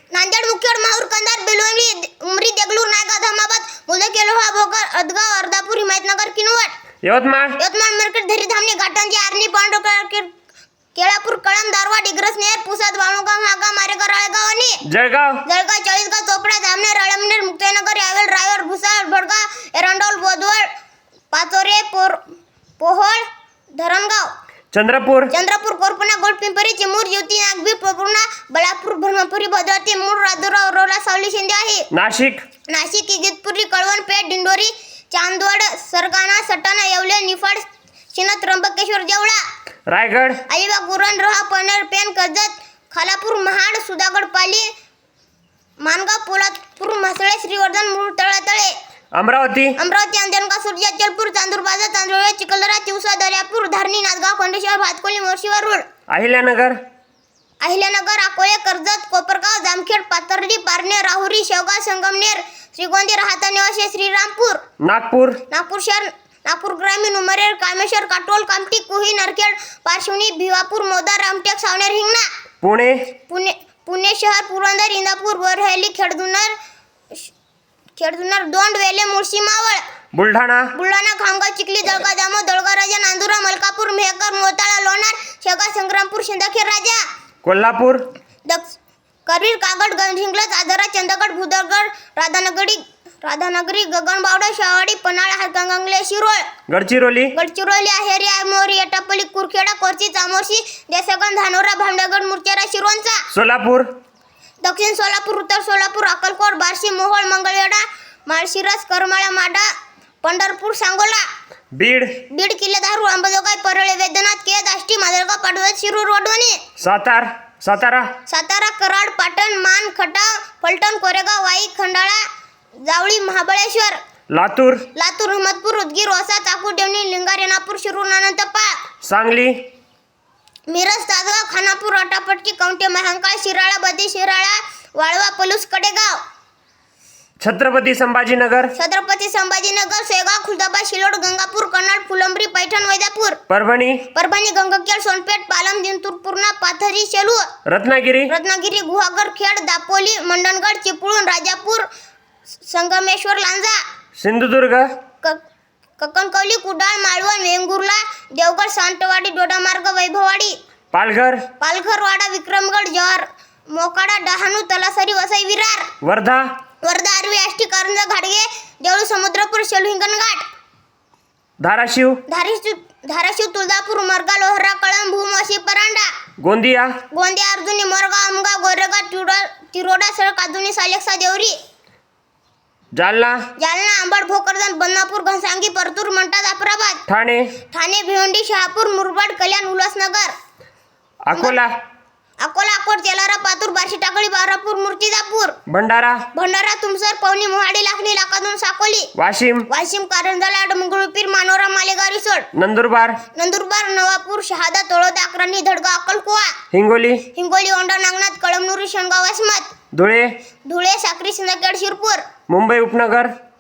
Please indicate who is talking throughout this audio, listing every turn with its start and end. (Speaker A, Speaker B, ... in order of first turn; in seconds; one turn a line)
Speaker A: 0.1-6.7
Speaker B: 7.0-7.6
Speaker A: 7.6-10.3
Speaker A: 10.9-14.8
Speaker B: 14.8-15.4
Speaker A: 15.4-20.6
Speaker A: 21.3-22.2
Speaker A: 22.8-23.2
Speaker A: 23.8-24.3
Speaker B: 24.7-25.3
Speaker A: 25.3-31.9
Speaker B: 31.9-32.5
Speaker A: 32.7-39.4
Speaker B: 39.9-40.4
Speaker A: 40.5-44.7
Speaker A: 45.8-48.7
Speaker B: 49.1-49.8
Speaker A: 49.8-55.8
Speaker B: 56.1-56.8
Speaker A: 57.6-64.6
Speaker B: 64.8-65.4
Speaker A: 65.5-72.3
Speaker B: 72.6-73.1
Speaker A: 73.2-76.5
Speaker A: 78.0-79.8
Speaker B: 80.1-80.7
Speaker A: 80.7-87.0
Speaker B: 87.4-88.1
Speaker A: 88.5-96.5
Speaker B: 96.7-97.3
Speaker A: 97.3-103.2
Speaker B: 103.3-103.9
Speaker A: 104.6-109.7
Speaker A: 110.2-111.2
Speaker B: 111.7-112.2
Speaker A: 112.3-116.6
Speaker B: 116.8-118.1
Speaker A: 118.3-122.2
Speaker A: 122.8-124.0
Speaker B: 124.3-124.9
Speaker A: 124.9-128.8
Speaker B: 129.0-129.6
Speaker A: 130.7-136.2
Speaker B: 137.4-138.7
Speaker A: 138.8-143.4
Speaker B: 143.5-144.1
Speaker A: 144.1-147.5
Speaker B: 147.7-148.3
Speaker A: 148.3-151.9
Speaker A: 152.7-153.8
Speaker B: 154.2-154.9
Speaker A: 156.0-160.6
Speaker B: 160.9-161.5
Speaker A: 161.6-165.9
Speaker B: 166.0-166.5
Speaker A: 166.8-170.5
Speaker B: 171.6-172.2
Speaker A: 172.3-176.1
Speaker B: 176.4-177.0
Speaker A: 177.1-181.6
Speaker B: 182.9-183.5
Speaker A: 183.6-187.0
Speaker B: 187.1-187.6
Speaker A: 187.7-190.3
Speaker B: 191.2-191.7
Speaker A: 191.3-191.6
Speaker A: 192.4-195.6
Speaker B: 195.7-196.3
Speaker A: 196.3-199.1
Speaker B: 199.2-199.7
Speaker A: 199.7-202.5
Speaker B: 202.5-203.2
Speaker A: 203.3-206.6
Speaker B: 206.7-207.3
Speaker A: 207.3-209.7
Speaker B: 209.9-210.4
Speaker A: 210.7-212.3
Speaker B: 212.5-213.4